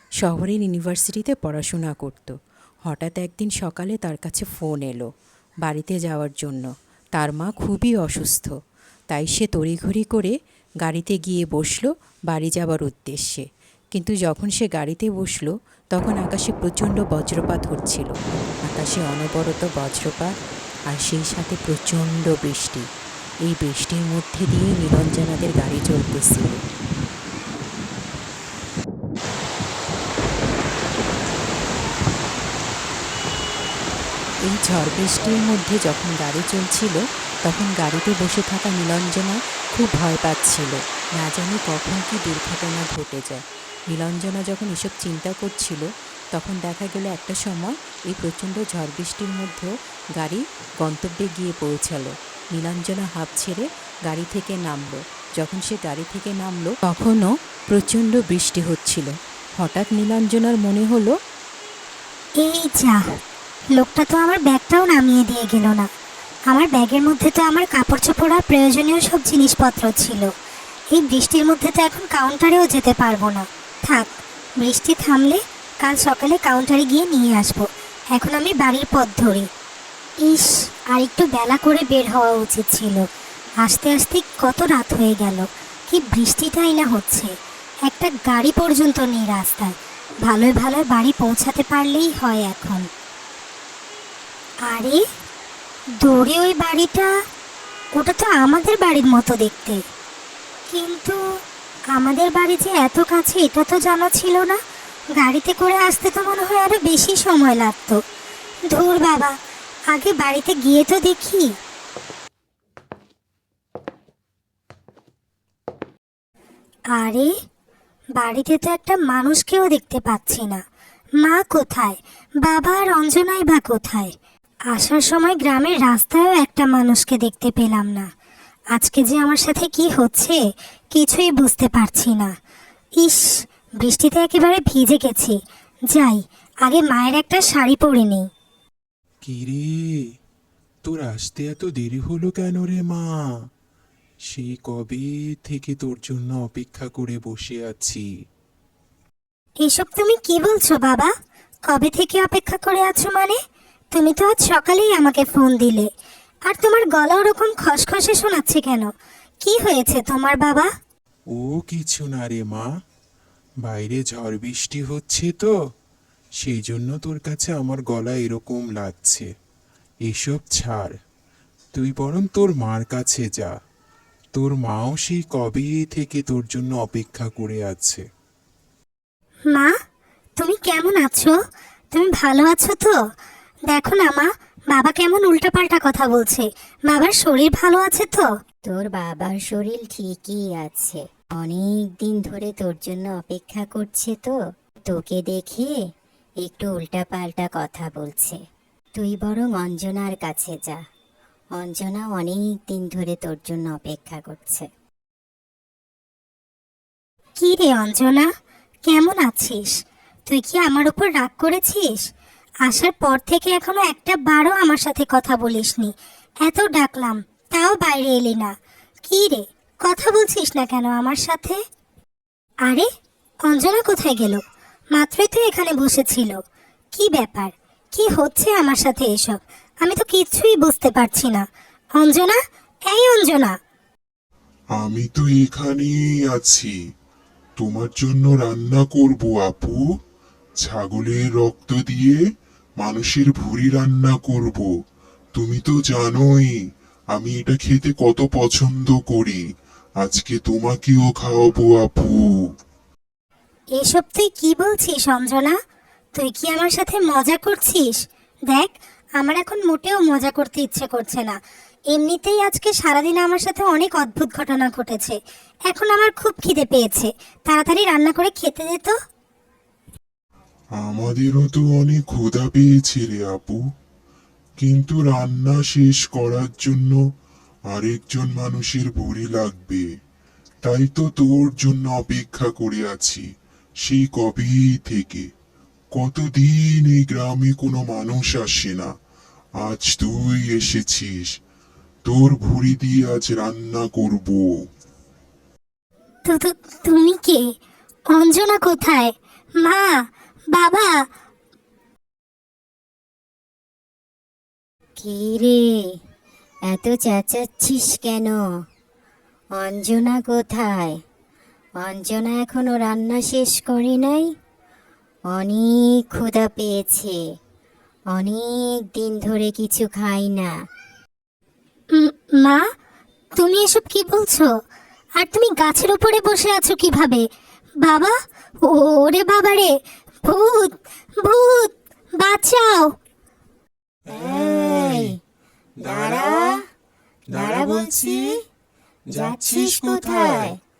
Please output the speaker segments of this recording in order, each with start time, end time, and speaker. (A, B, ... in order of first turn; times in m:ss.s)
0:00.2-0:05.1 A
0:05.6-0:08.5 A
0:09.1-0:18.1 A
0:18.6-0:20.3 A
0:20.9-0:22.8 A
0:23.4-0:26.5 A
0:34.4-1:01.1 A
1:02.4-1:03.0 B
1:03.8-1:05.9 B
1:06.5-1:10.3 B
1:10.9-1:19.5 B
1:20.2-1:23.0 B
1:23.6-1:27.3 B
1:27.9-1:29.7 B
1:30.2-1:32.9 B
1:34.7-1:35.0 B
1:36.0-1:37.1 B
1:38.0-1:39.8 B
1:40.7-1:41.2 B
1:41.9-1:44.6 B
1:45.2-1:48.0 B
1:48.7-1:49.3 B
1:49.9-1:51.5 B
1:57.0-1:57.3 B
1:58.2-2:00.6 B
2:01.2-2:04.1 B
2:04.7-2:08.1 B
2:08.7-2:10.4 B
2:10.9-2:12.3 B
2:13.8-2:15.4 B
2:15.9-2:18.2 B
2:19.2-2:19.9 C
2:20.8-2:23.1 C
2:24.3-2:28.0 C
2:29.6-2:31.1 B
2:31.7-2:33.4 B
2:33.9-2:35.9 B
2:36.5-2:38.9 B
2:39.4-2:40.7 B
2:41.3-2:42.6 C
2:43.6-2:45.5 C
2:46.4-2:49.3 C
2:50.0-2:50.9 C
2:51.7-2:53.5 C
2:54.3-2:58.0 C
3:00.4-3:01.3 B
3:01.9-3:03.0 B
3:03.7-3:08.3 B
3:08.7-3:15.7 D
3:16.4-3:18.4 D
3:19.0-3:20.8 D
3:21.6-3:24.6 D
3:27.4-3:28.3 B
3:28.9-3:29.7 B
3:30.3-3:32.0 B
3:32.6-3:35.9 B
3:36.4-3:38.5 B
3:39.0-3:41.6 B
3:43.4-3:44.4 B
3:44.9-3:46.4 B
3:47.0-3:51.4 B
3:52.0-3:53.5 B
3:54.7-3:56.7 E
3:57.6-3:59.8 E
4:00.6-4:02.2 E
4:02.8-4:04.7 E
4:05.4-4:06.5 E
4:07.1-4:09.4 E
4:10.0-4:12.3 E
4:13.8-4:15.6 B
4:16.1-4:21.4 B
4:21.9-4:25.2 B
4:25.7-4:28.9 B
4:30.8-4:33.6 E
4:34.6-4:37.0 E
4:37.7-4:39.8 E
4:40.6-4:43.2 E
4:43.8-4:45.2 E
4:46.0-4:48.9 E
4:49.6-4:51.3 E
4:52.0-4:54.5 E
4:56.2-4:57.4 B
4:58.1-4:59.9 B
5:00.5-5:00.9 B
5:05.0-5:06.0 D
5:06.7-5:08.4 D
5:09.6-5:11.0 D
5:11.8-5:14.3 D
5:15.3-5:17.2 D
5:18.1-5:20.5 D
5:22.0-5:22.6 B
5:23.4-5:24.5 B
5:25.2-5:27.2 B
5:27.8-5:29.7 B
5:30.2-5:32.9 B
5:34.1-5:35.2 D
5:34.2-5:35.1 C
5:35.8-5:36.3 C
5:35.8-5:36.5 D
5:37.3-5:38.3 D
5:37.3-5:38.2 C
5:39.1-5:40.5 C
5:39.1-5:40.6 D